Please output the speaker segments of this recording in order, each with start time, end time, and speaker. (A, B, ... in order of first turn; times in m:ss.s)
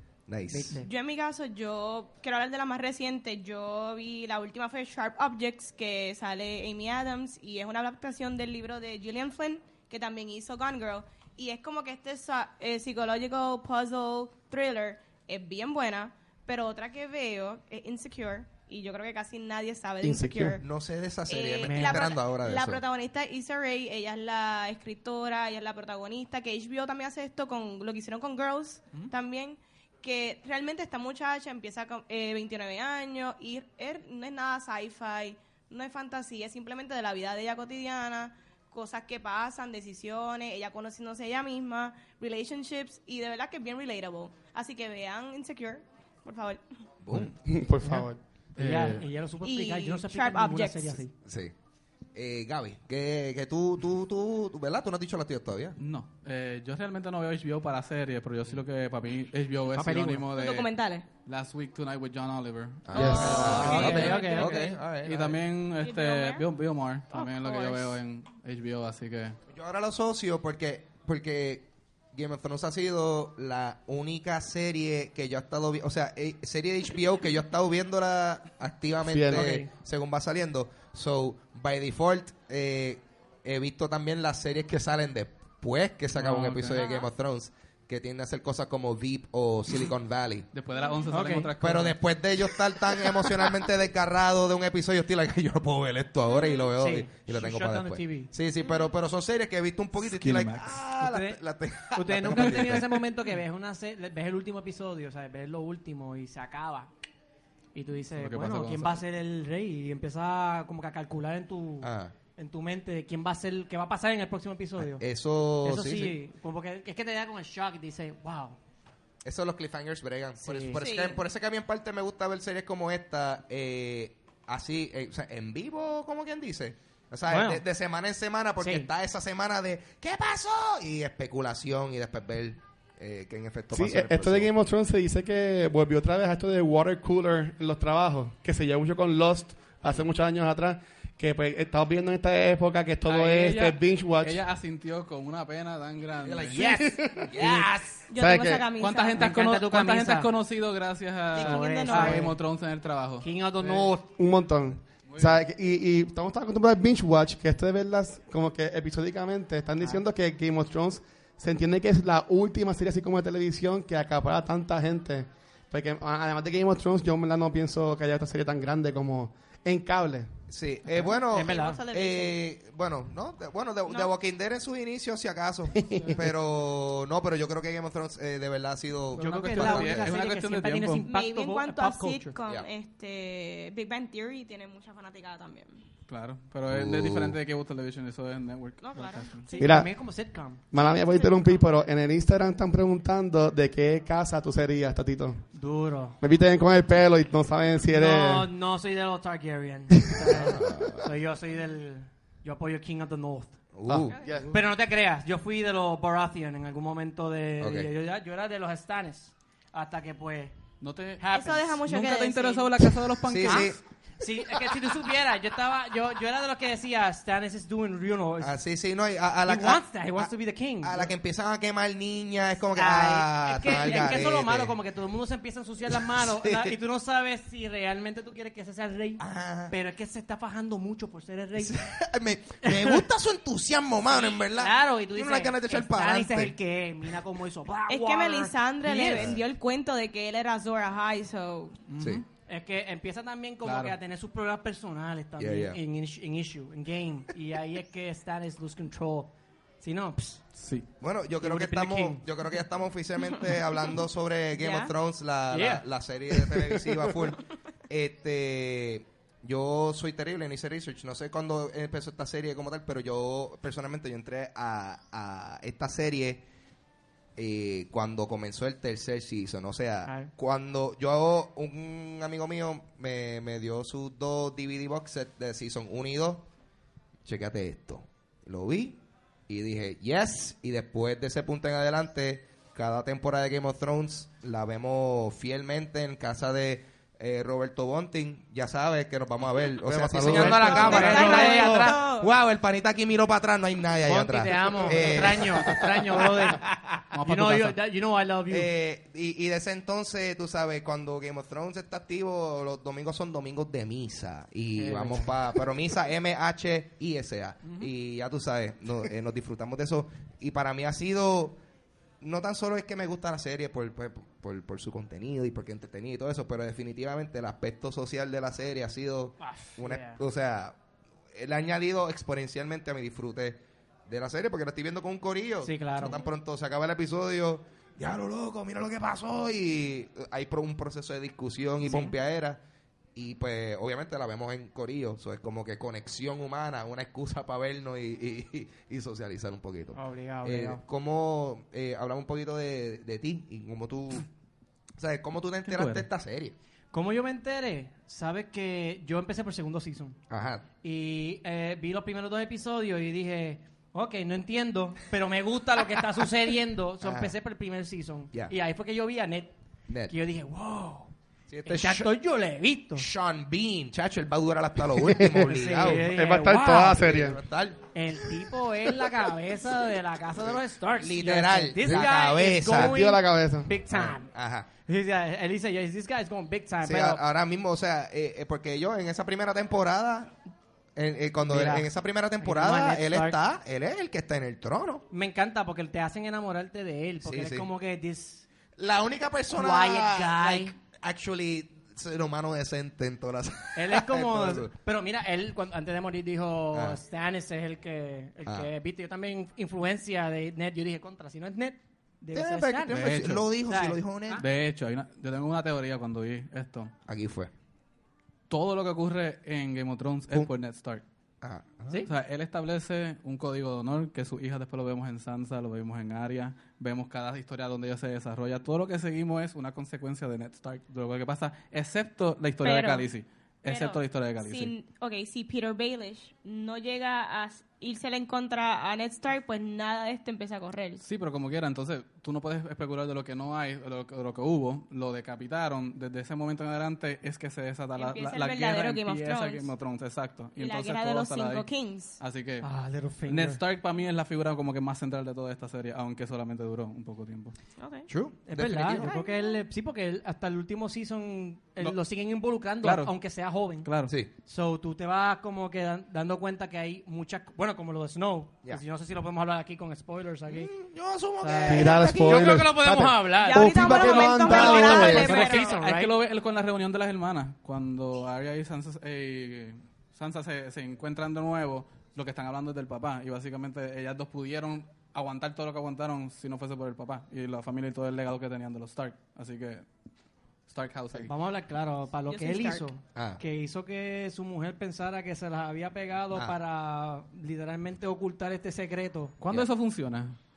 0:00.3-0:00.8 A
0:00.5-0:00.9 B
0:00.8-0:20.6 C
0:20.0-0:20.6 D
0:20.6-0:22.8 A
0:21.3-0:46.6 C
0:21.6-0:22.1 B
0:47.0-0:47.3 A
0:47.1-0:48.2 D
0:48.6-0:49.1 E
0:48.6-0:51.1 B
0:49.4-0:51.0 C
0:51.2-0:51.5 A
0:52.2-0:55.8 A
0:55.8-1:09.4 E
0:59.7-1:00.2 B
1:00.4-1:01.1 C
1:02.9-1:05.4 A
1:02.9-1:03.5 D
1:03.0-1:04.8 C
1:03.3-1:04.6 B
1:05.8-1:06.5 C
1:07.1-1:08.0 C
1:09.5-1:30.5 A
1:19.1-1:19.6 D
1:19.3-1:19.7 B
1:26.2-1:26.8 E
1:26.8-1:27.1 C
1:30.5-1:32.0 E
1:30.8-1:31.2 C
1:31.1-1:31.5 B
1:31.6-1:42.9 A
1:36.3-1:36.7 C
1:36.8-1:38.3 B
1:38.6-1:38.9 C
1:40.0-1:40.8 E
1:41.0-1:41.4 B
1:41.9-1:46.9 B
1:42.3-1:42.7 E
1:47.8-1:55.0 B
1:48.2-1:49.0 E
1:51.8-1:52.1 A
1:54.8-1:56.2 A
1:55.6-1:58.6 B
1:59.2-2:14.5 A
2:00.4-2:00.8 B
2:00.8-2:01.2 C
2:07.3-2:07.6 B
2:08.6-2:08.9 B
2:13.7-2:24.4 D
2:23.1-2:26.6 E
2:26.2-2:28.0 A
2:26.5-2:27.6 D
2:28.1-2:29.3 C
2:28.2-2:28.7 D
2:28.8-2:33.9 E
2:29.2-2:30.3 B
2:31.3-2:32.3 C
2:31.4-2:32.4 B
2:33.2-2:34.0 B
2:34.2-2:50.3 D
2:35.1-2:35.4 E
2:50.5-3:00.1 A
2:51.1-2:52.4 C
2:51.3-2:51.8 B
2:53.9-2:54.1 C
2:55.8-2:56.3 D
2:59.1-3:01.0 E
2:59.2-3:02.4 B
3:01.0-3:05.8 C
3:06.1-3:09.4 E
3:06.7-3:07.4 A
3:08.8-3:09.7 C
3:09.5-3:10.6 B
3:09.6-3:09.9 D
3:10.7-3:15.4 D
3:11.0-3:11.6 C
3:15.5-3:16.2 B
3:16.2-3:18.5 D
3:17.9-3:23.6 B
3:20.0-3:20.3 D
3:20.3-3:21.1 A
3:23.7-3:24.1 A
3:23.9-3:24.5 D
3:24.1-3:24.4 C
3:24.3-3:24.5 E
3:24.5-3:30.6 B
3:27.6-3:27.9 A
3:30.8-3:31.2 E
3:31.2-3:31.8 B
3:31.3-3:32.7 C
3:31.8-3:33.7 E
3:33.2-3:33.8 A
3:33.5-3:38.6 B
3:38.4-3:40.3 A
3:39.5-3:41.1 B
3:40.8-3:44.8 A
3:42.8-3:51.8 B
3:45.9-3:46.7 A
3:49.2-3:49.7 A
3:51.6-3:56.6 A
3:52.6-3:53.0 B
3:54.1-3:59.3 B
3:57.9-4:01.8 C
3:59.1-3:59.4 A
4:01.9-4:02.2 E
4:02.0-4:02.2 A
4:02.5-4:10.4 B
4:03.6-4:04.0 E
4:05.4-4:05.8 A
4:10.6-4:10.9 E
4:11.0-4:26.4 A
4:11.4-4:12.2 B
4:14.6-4:14.9 C
4:15.5-4:17.1 B
4:27.4-4:36.4 A
4:30.0-4:30.3 B
4:37.3-4:56.3 A
4:49.8-4:51.4 D
4:50.2-4:52.0 B
4:50.6-4:52.3 C
4:54.1-4:56.7 B
4:57.1-4:57.8 E
4:57.2-4:58.7 B
4:58.5-5:11.6 A
5:04.8-5:05.4 B
5:07.6-5:07.9 B
5:12.2-5:20.8 A
5:19.4-5:20.2 B
5:21.3-5:32.6 A
5:25.6-5:26.2 B
5:31.8-5:32.2 B
5:33.2-5:44.3 A
5:39.9-5:40.8 B
5:45.0-5:46.6 A
5:45.6-5:46.1 E
5:46.9-5:50.2 B
5:50.3-5:50.7 A
5:50.8-5:59.6 B
5:57.0-5:57.3 A
5:59.9-6:00.1 A
6:00.1-6:01.1 B
6:01.5-6:02.1 A
6:01.6-6:03.1 B
6:03.0-6:07.8 A
6:05.0-6:07.4 D
6:05.3-6:07.0 B
6:07.9-6:17.2 B
6:10.4-6:13.0 A
6:12.7-6:13.7 D
6:13.9-6:14.7 A
6:16.8-6:20.4 A
6:21.0-6:25.0 A
6:21.4-6:21.9 B
6:22.4-6:23.4 B
6:25.1-6:28.5 B
6:27.2-6:27.7 A
6:28.8-6:34.7 A
6:29.6-6:30.8 B
6:33.8-6:44.5 B
6:36.7-6:37.0 A
6:38.4-6:38.7 A
6:42.3-6:44.4 A
6:42.9-6:43.5 E
6:44.4-6:46.9 E
6:47.1-6:47.5 A
6:48.5-6:51.0 E
6:51.4-6:52.1 A
6:52.1-7:04.7 E
7:02.6-7:03.1 C
7:03.7-7:11.0 C
7:11.0-7:21.7 E
7:18.0-7:19.7 C
7:20.6-7:22.2 C
7:22.2-7:22.7 E
7:22.6-7:23.6 B
7:23.3-7:27.6 E
7:27.8-7:28.1 C
7:28.1-7:29.1 A
7:28.5-7:33.9 B
7:29.0-7:29.6 C
7:32.8-7:33.1 E
7:33.8-7:34.1 E
7:34.5-7:40.7 B
7:40.5-7:42.6 A
7:41.4-7:46.1 B
7:41.7-7:45.4 D
7:43.4-7:45.8 C
7:44.3-7:59.8 E
8:00.7-8:01.3 E
8:01.2-8:09.4 B
8:02.3-8:02.9 C
8:03.2-8:03.4 A
8:09.4-8:10.4 E